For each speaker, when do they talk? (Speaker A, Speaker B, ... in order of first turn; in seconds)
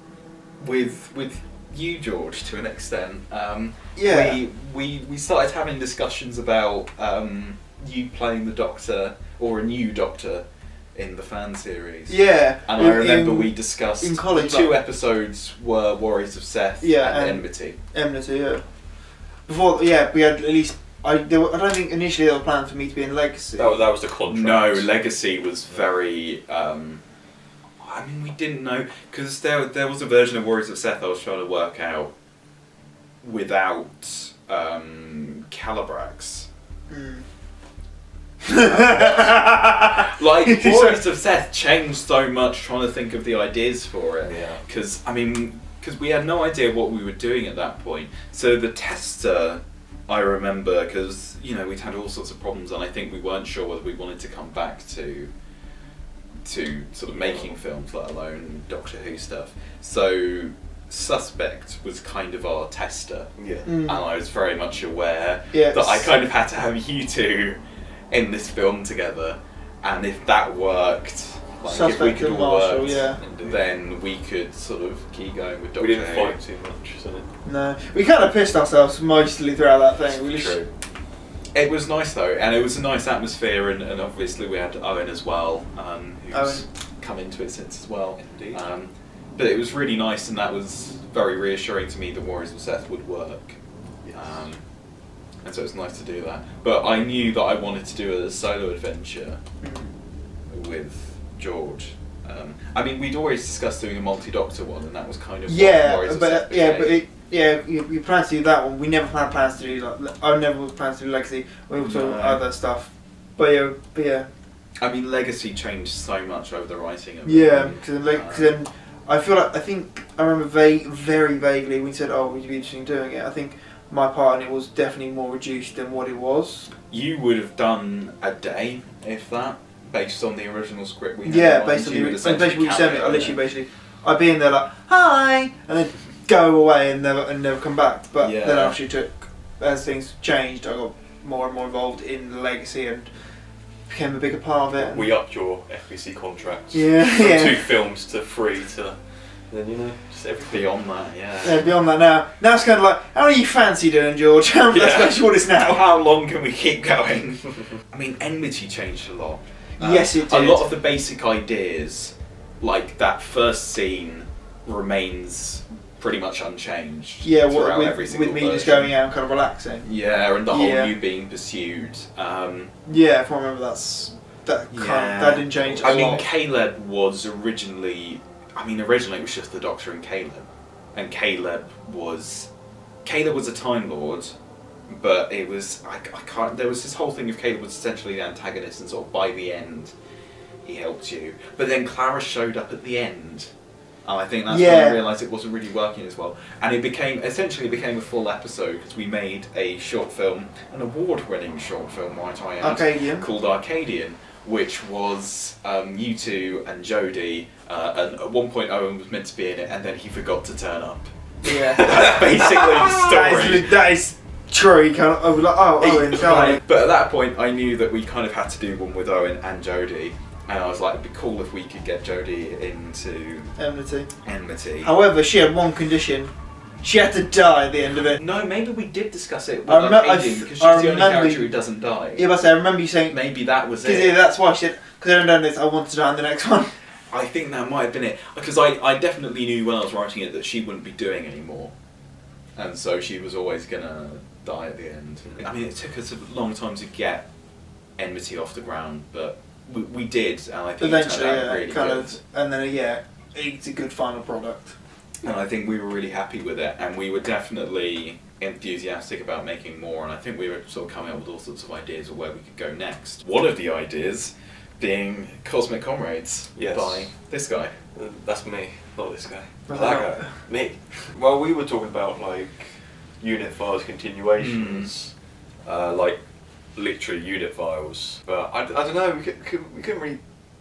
Speaker A: 0.6-17.8, 24.3-27.0, 27.8-32.1, 33.2-36.5, 38.6-55.3, 56.4-63.3, 63.8-76.4, 80.1-80.7, 81.5-93.6, 94.1-94.7, 95.4-99.4, 100.5-107.0, 111.7-112.4, 114.8-118.5, 126.8-133.4, 138.2-138.8, 150.5-151.7, 154.6-168.9, 169.8-172.7, 174.7-182.5, 183.0-184.3, 184.9-189.9, 190.6-193.5, 194.0-213.7, 215.8-223.6, 224.2-224.9, 228.0-232.3, 233.1-234.2, 237.1-241.7, 242.6-247.3, 248.0-252.2, 255.2-267.8, 274.4-274.9
Speaker B: 4.0-4.4, 12.1-14.8, 16.8-18.6, 19.4-23.9, 36.9-37.2, 38.4-41.0, 63.6-64.0, 65.5-66.2, 71.6-73.2, 77.4-80.6, 86.3-86.6, 99.6-99.9, 105.5-114.3, 117.2-126.7, 131.2-143.1, 143.9-145.1, 146.7-147.7, 151.4-155.8, 159.8-160.7, 167.2-169.9, 170.4-171.0, 172.8-176.3, 194.5-195.0, 202.6-203.3, 211.4-216.6, 223.6-224.1, 224.8-228.2, 229.6-233.2, 233.7-236.7, 250.8-254.8, 269.7-270.4
Speaker C: 23.6-24.9, 44.2-44.6, 57.1-57.5, 63.4-63.7, 73.2-73.6, 75.8-77.3, 88.2-88.6, 94.0-94.5, 144.7-150.7, 266.5-267.1, 267.9-276.2, 276.7-280.2